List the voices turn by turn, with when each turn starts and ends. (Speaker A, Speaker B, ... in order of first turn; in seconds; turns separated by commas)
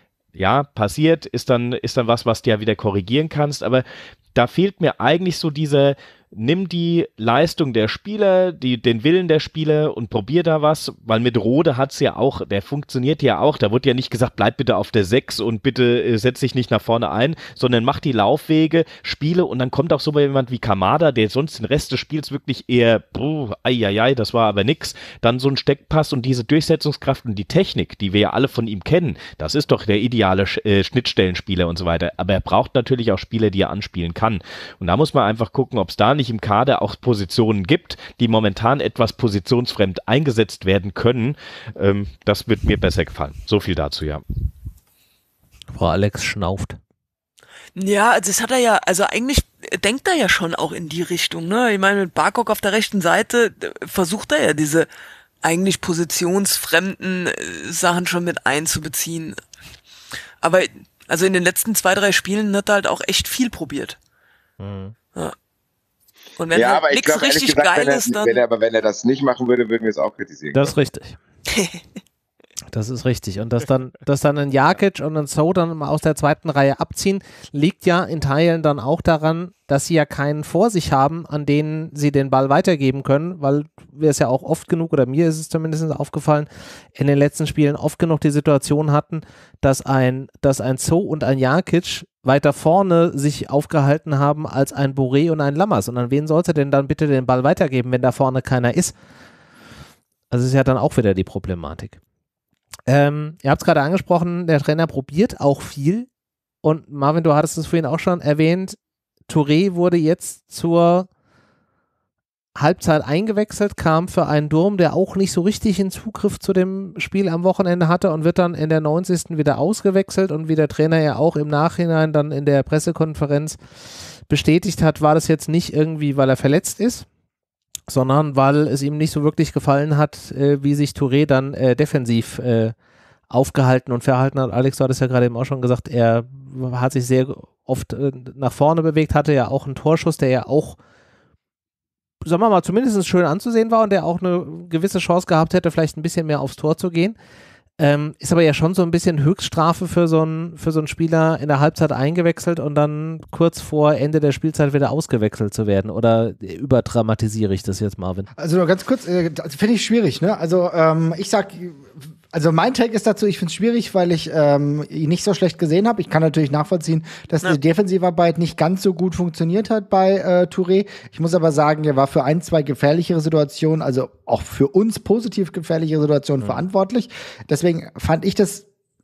Speaker A: 0.3-44.2, Speaker B: 45.7-46.8, Speaker C: 47.8-54.9, Speaker C: 55.4-59.4, Speaker C: 60.4-64.0, Speaker B: 64.6-65.0, Speaker C: 66.4-68.4, Speaker D: 66.5-70.7, Speaker B: 70.5-71.2, Speaker C: 71.5-71.8, Speaker B: 72.7-99.0, Speaker B: 100.3-102.0, Speaker B: 102.9-106.1, Speaker B: 106.6-108.8, Speaker B: 109.3-111.1, Speaker B: 112.6-123.6, Speaker B: 124.3-127.1, Speaker B: 127.9-132.8, Speaker B: 133.3-140.8, Speaker B: 142.2-147.2, Speaker B: 147.8-158.3, Speaker E: 158.4-178.7